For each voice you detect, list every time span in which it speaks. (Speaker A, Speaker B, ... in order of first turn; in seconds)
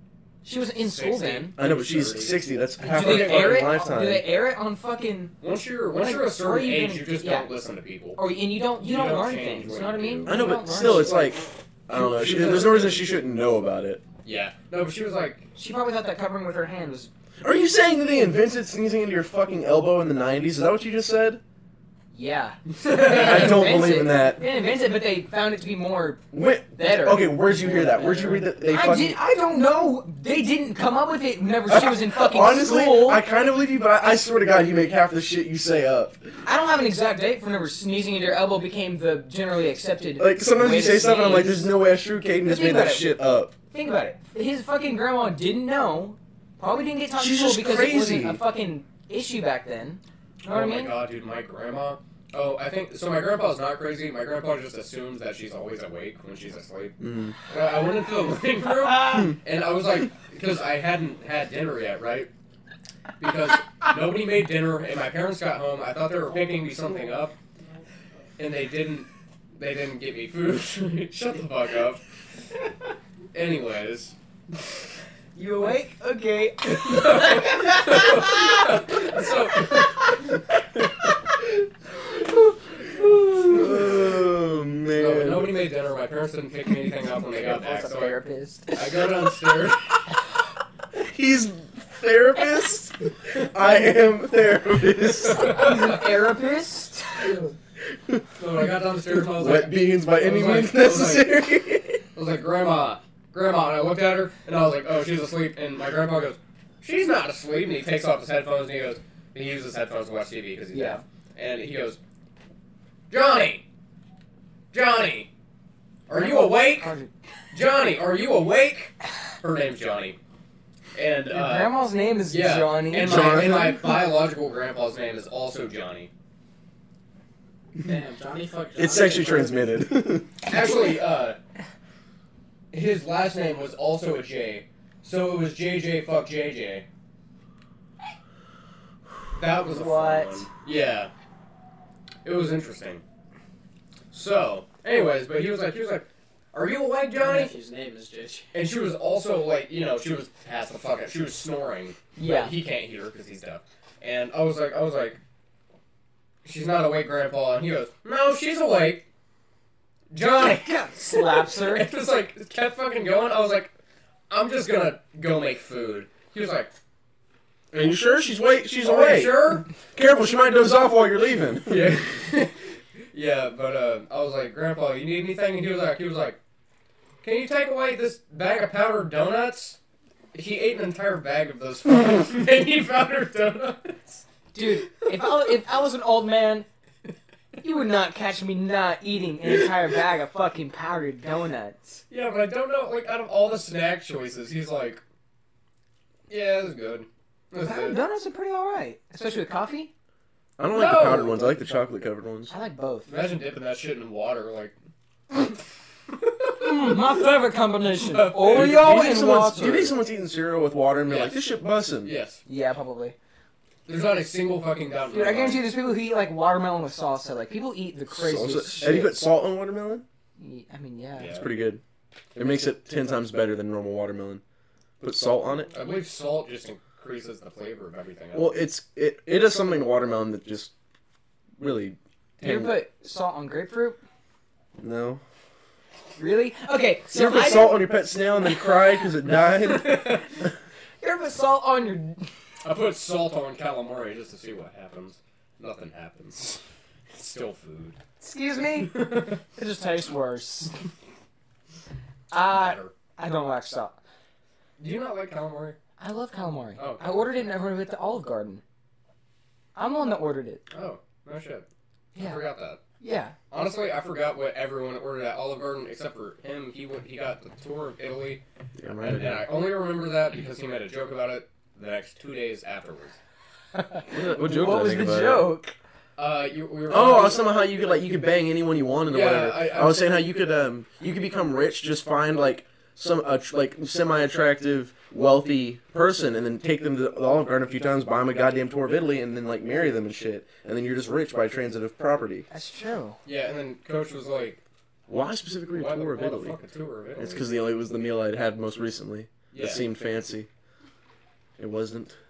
Speaker A: 0.4-1.6, 2.8-5.3, 6.0-7.5, 8.2-11.3, 15.6-17.1, 22.1-33.2, 36.4-41.7, 42.4-43.2, 43.7-51.0, 59.0-59.3, 75.3-78.7, 87.4-89.1, 95.4-97.5, 110.7-111.0, 116.1-117.1, 121.3-123.8, 139.7-140.4, 152.2-152.5, 160.3-161.9, 184.5-186.7, 187.6-192.0, 197.6-199.9, 202.5-203.1, 206.6-209.9, 212.5-213.2, 215.1-219.2, 220.4-221.4, 232.4-234.0, 236.2-237.9, 239.6-240.3, 241.0-242.3, 248.2-250.8, 252.3-254.0, 256.0-258.6, 259.8-260.6, 262.1-262.4, 263.0-263.4, 273.8-275.8, 292.5-293.2
Speaker B: 0.8-2.1, 2.9-3.7, 5.4-8.2, 8.8-10.9, 11.9-13.0, 14.2-15.5, 22.8-23.7, 50.5-57.0, 57.5-62.3, 63.2-67.3, 68.4-72.0, 73.3-74.2, 76.7-80.1, 84.9-88.2, 88.7-90.1, 95.4-95.7, 98.4-101.4, 102.1-112.0, 113.1-113.6, 114.7-115.3, 116.1-116.9, 117.5-120.2, 121.0-121.8, 122.3-126.1, 130.5-131.4, 132.7-136.9, 139.4-141.1, 142.2-143.0, 144.1-147.6, 148.5-155.2, 156.4-159.1, 160.1-163.7, 164.3-166.7, 168.8-169.7, 171.7-176.4, 177.2-179.8, 180.3-184.2, 192.1-195.0, 196.3-198.0, 200.7-201.5, 203.1-204.7, 206.5-207.0, 208.0-209.4, 211.1-211.4, 212.0-212.4, 213.9-215.7, 221.2-221.5, 225.7-228.6, 242.6-248.0, 248.9-249.4, 252.5-252.9, 254.8-255.8, 256.8-257.3, 260.7-262.8, 263.5-268.4, 268.9-273.2, 276.2-277.5, 279.1-280.3, 293.2-294.6, 295.7-297.5, 299.5-299.8
Speaker C: 1.6-4.3, 10.3-14.0, 17.4-21.4, 22.9-24.4, 26.3-29.2, 31.7-36.3, 40.2-43.5, 47.2-48.4, 57.0-57.4, 83.0-85.6, 91.0-95.9, 97.9-98.3, 99.2-102.0, 122.9-123.8, 128.8-130.4, 167.7-172.0, 200.6-202.5, 208.5-212.2, 218.1-220.1, 221.3-221.8, 222.3-224.4, 225.0-225.7, 228.3-230.7, 231.6-232.8, 234.8-235.2, 237.1-240.2, 268.8-269.5, 274.1-275.5, 276.9-292.5, 295.1-296.6, 297.2-300.5, 301.6-302.2
Speaker D: 127.8-129.7, 147.2-148.5